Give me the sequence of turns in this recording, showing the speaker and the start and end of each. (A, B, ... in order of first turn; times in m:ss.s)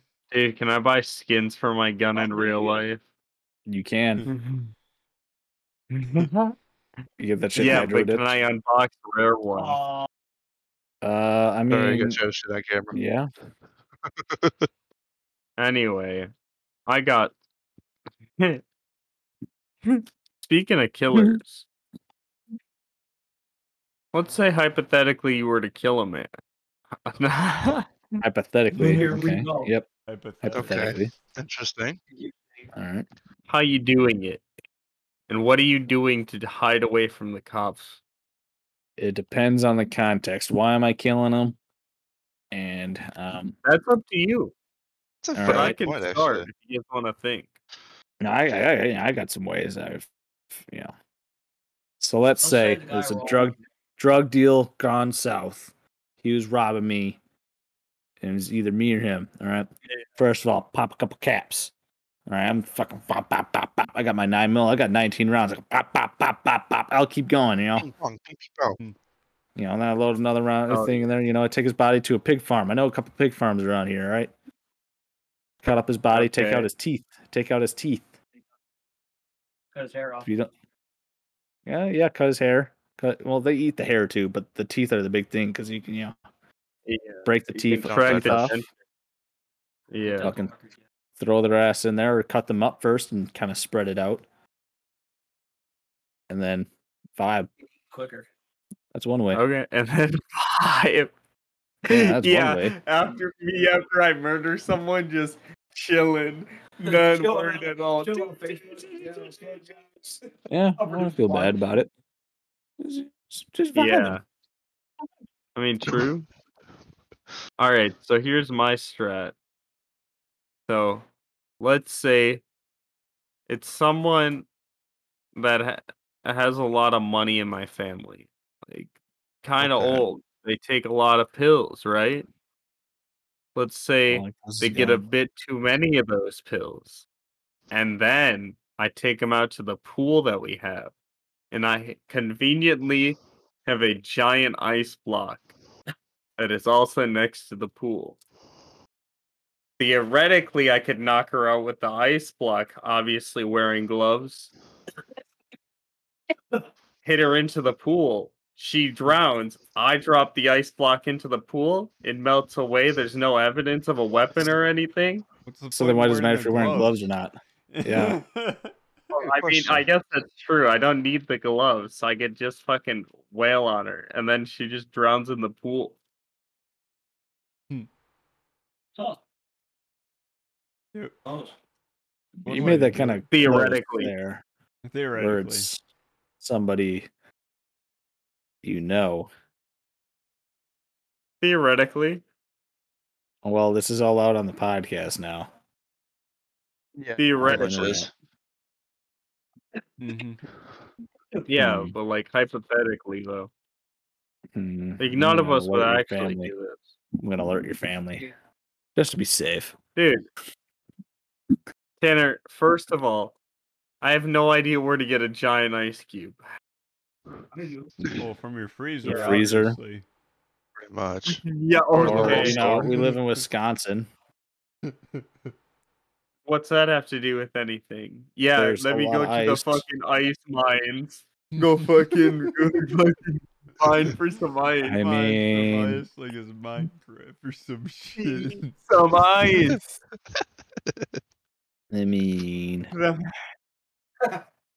0:00.3-0:03.0 A
0:02.2-0:02.8 B
0:03.7-0:04.3 C
0:04.3-0:04.7 A
0:05.9-0:06.6 A
0:07.2-0:08.3 C
0:07.6-0:09.8 A
0:09.6-0:10.1 B
0:11.0-0:12.2 C
0:11.7-0:13.0 D
0:12.9-0:13.3 C
0:14.2-0:14.7 D
0:15.6-0:16.3 A
0:16.9-0:17.3 A
0:19.8-0:21.7 A
0:24.1-0:26.3 A
0:27.0-0:28.2 A
0:28.2-0:29.9 C
0:28.8-0:29.7 B
0:30.1-0:30.9 E
0:30.4-0:31.1 C
0:30.6-0:32.0 D
0:32.1-0:32.7 B
0:32.7-0:33.1 C
0:33.5-0:34.4 A
0:35.3-0:38.0 A
0:39.0-0:41.6 C
0:42.5-0:43.6 C
0:43.6-0:44.5 A
0:45.2-0:46.5 D
0:45.4-0:45.8 C
0:45.4-0:47.5 A
0:48.2-0:50.9 C
0:52.0-0:55.7 C
0:52.4-0:53.6 B
0:56.2-0:57.2 C
0:58.2-1:01.7 C
1:02.3-1:07.9 C
1:07.8-1:08.8 D
1:09.6-1:14.3 C
1:10.7-1:11.1 A
1:15.6-1:18.1 C
1:16.1-1:16.7 A
1:19.7-1:20.3 B
1:20.2-1:20.5 C
1:21.7-1:26.2 C
1:26.9-1:28.7 A
1:27.2-1:28.6 C
1:27.7-1:28.6 D
1:29.9-1:30.3 A
1:30.1-1:30.7 B
1:30.2-1:30.5 C
1:31.2-1:34.2 C
1:36.3-1:37.5 C
1:37.8-1:38.3 B
1:38.9-1:39.4 C
1:39.3-1:41.1 A
1:41.9-1:48.9 A
1:41.9-1:42.8 C
1:46.9-1:50.2 B
1:50.5-1:51.9 C
1:50.8-1:51.6 B
1:52.8-1:54.2 C
1:53.7-1:54.2 A
1:55.6-1:56.3 A
1:57.6-1:59.4 A
2:00.7-2:01.1 A
2:01.6-2:02.4 A
2:03.5-2:04.5 A
2:05.4-2:12.3 A
2:09.6-2:10.0 C
2:13.6-2:17.0 A
2:14.1-2:15.1 C
2:17.7-2:20.9 A
2:21.5-2:25.5 A
2:26.4-2:28.2 A
2:29.8-2:34.5 A
2:37.0-2:45.2 A
2:45.5-2:47.1 E
2:45.7-2:48.2 C
2:47.7-2:48.8 E
2:49.1-2:56.0 A
2:49.3-2:49.8 D
3:01.3-3:01.5 B
3:02.4-3:03.3 E
3:02.5-3:04.4 C
3:03.3-3:04.1 A
3:04.8-3:05.7 E
3:05.1-3:05.8 C
3:06.4-3:07.1 C
3:08.6-3:09.3 C
3:11.4-3:12.2 A
3:13.4-3:15.5 C
3:17.0-3:18.1 D
3:17.2-3:18.0 A
3:17.4-3:18.1 C
3:20.0-3:20.4 E
3:21.5-3:23.5 A
3:21.6-3:22.0 C
3:24.5-3:26.5 C
3:25.0-3:26.8 A
3:27.2-3:28.2 C
3:29.0-3:29.8 C
3:30.0-3:30.2 A
3:32.0-3:33.4 A
3:34.0-3:36.4 A
3:37.5-3:37.9 B
3:38.2-3:40.0 E
3:39.0-3:39.8 C
3:39.1-3:39.4 A
3:40.8-3:41.4 D
3:41.3-3:42.6 A
3:42.0-3:42.9 D
3:42.0-3:44.1 C
3:42.1-3:43.2 E
3:44.9-3:45.5 E
3:46.5-3:55.0 A
3:48.6-3:49.8 C
3:51.6-3:52.3 E
3:54.8-3:56.0 C
3:55.0-3:58.8 E
3:58.2-3:59.8 A
4:01.9-4:02.9 C
4:02.9-4:03.3 A